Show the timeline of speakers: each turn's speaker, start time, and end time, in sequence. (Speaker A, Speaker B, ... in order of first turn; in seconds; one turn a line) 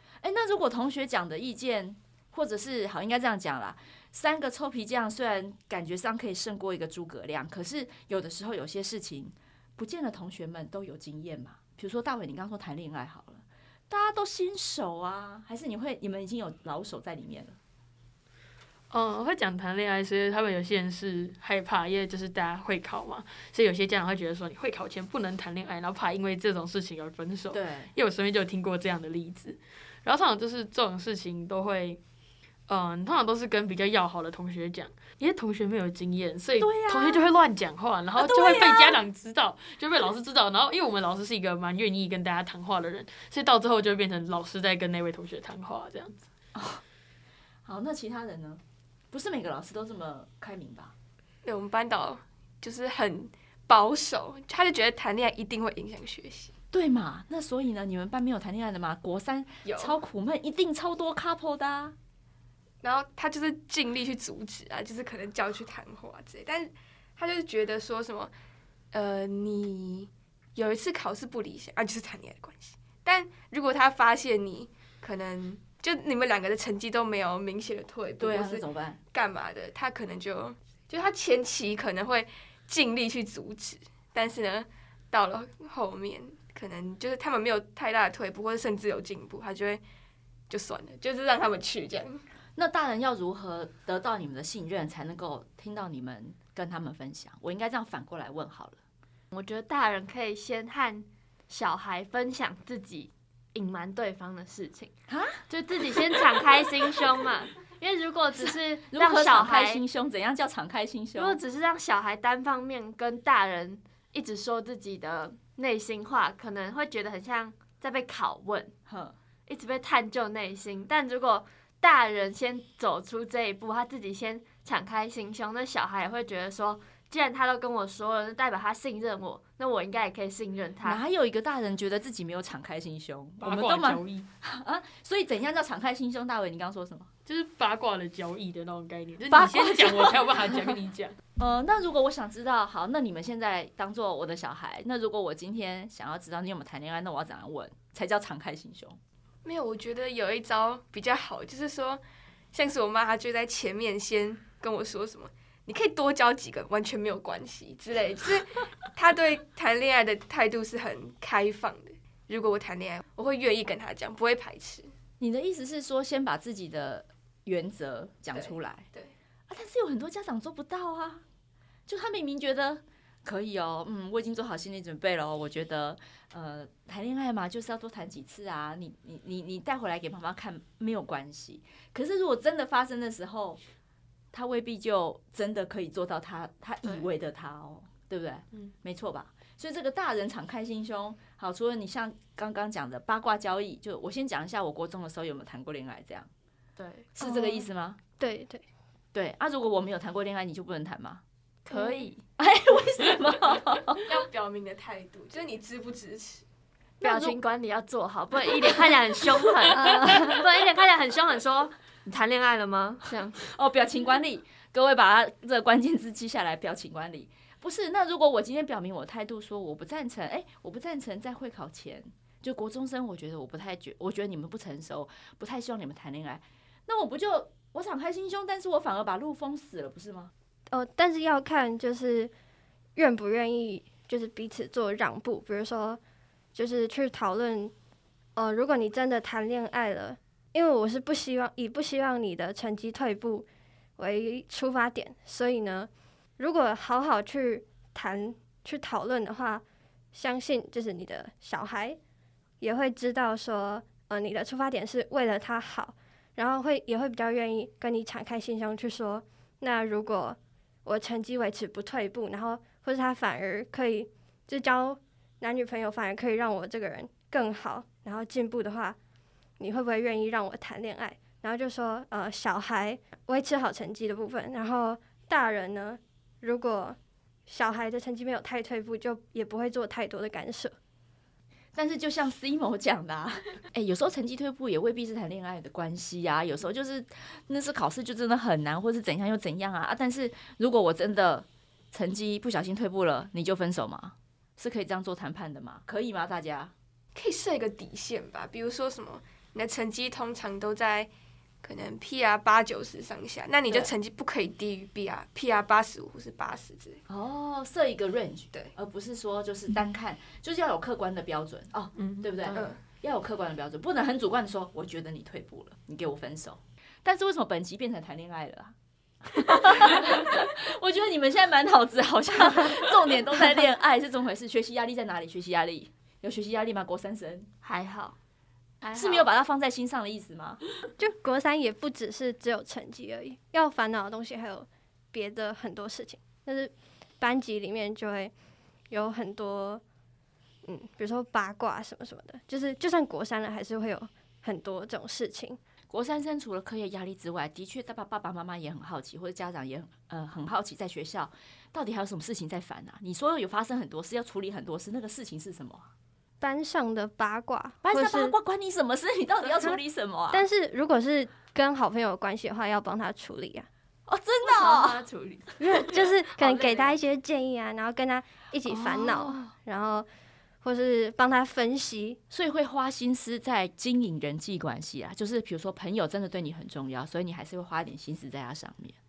Speaker A: 0.2-17.6
Speaker B: 18.9-32.0
Speaker A: 27.5-27.9
Speaker B: 32.7-46.2
Speaker A: 36.6-37.2
Speaker A: 38.2-39.0
Speaker A: 46.5-46.8
Speaker A: 47.6-50.9
Speaker C: 51.4-56.5
Speaker A: 56.7-61.9
Speaker C: 59.6-60.0
Speaker C: 62.8-68.3
Speaker C: 68.9-89.8
Speaker A: 78.2-79.0
Speaker C: 90.5-92.2
Speaker A: 92.5-98.8
Speaker D: 99.3-104.9
Speaker A: 105.1-105.4
Speaker D: 105.5-109.8
Speaker A: 108.4-111.4
Speaker D: 111.2-118.7
Speaker A: 118.9-119.1
Speaker D: 119.5-131.0
Speaker A: 130.8-137.1
Speaker B: 133.4-134.3
Speaker B: 137.2-141.2
Speaker A: 139.3-140.7
Speaker A: 141.4-149.0
Speaker C: 149.4-152.0
Speaker C: 152.5-164.9
Speaker A: 165.2-168.9
Speaker C: 168.3-169.1
Speaker A: 169.5-171.2
Speaker A: 171.9-183.6
Speaker A: 184.3-196.3
Speaker D: 186.8-187.1
Speaker D: 196.8-197.1
Speaker A: 197.1-198.0
Speaker E: 197.2-197.6
Speaker E: 198.2-198.6
Speaker A: 199.1-201.2
Speaker D: 201.6-202.2
Speaker A: 202.4-204.0
Speaker C: 204.0-206.4
Speaker A: 207.0-207.4
Speaker D: 207.0-213.4
Speaker A: 213.4-230.3
Speaker E: 230.7-232.3
Speaker E: 232.9-236.0
Speaker E: 236.5-237.7
Speaker E: 238.3-243.5
Speaker E: 244.0-252.0
Speaker E: 252.6-269.0
Speaker E: 269.6-280.7
Speaker A: 281.7-296.7
Speaker C: 297.1-301.1
Speaker C: 301.6-307.0
Speaker A: 307.1-318.7
Speaker B: 312.0-312.2
Speaker C: 312.5-312.8
Speaker A: 319.3-327.5
Speaker D: 327.6-328.2
Speaker D: 328.8-329.3
Speaker A: 328.9-330.6
Speaker E: 331.0-338.3
Speaker E: 338.9-339.8
Speaker E: 340.6-345.6
Speaker A: 345.9-355.9
Speaker E: 356.4-358.3
Speaker A: 357.8-360.5
Speaker E: 360.3-363.7
Speaker A: 364.1-365.0
Speaker D: 364.4-366.9
Speaker E: 365.6-370.1
Speaker A: 368.7-369.4
Speaker E: 370.6-372.2
Speaker A: 372.3-379.0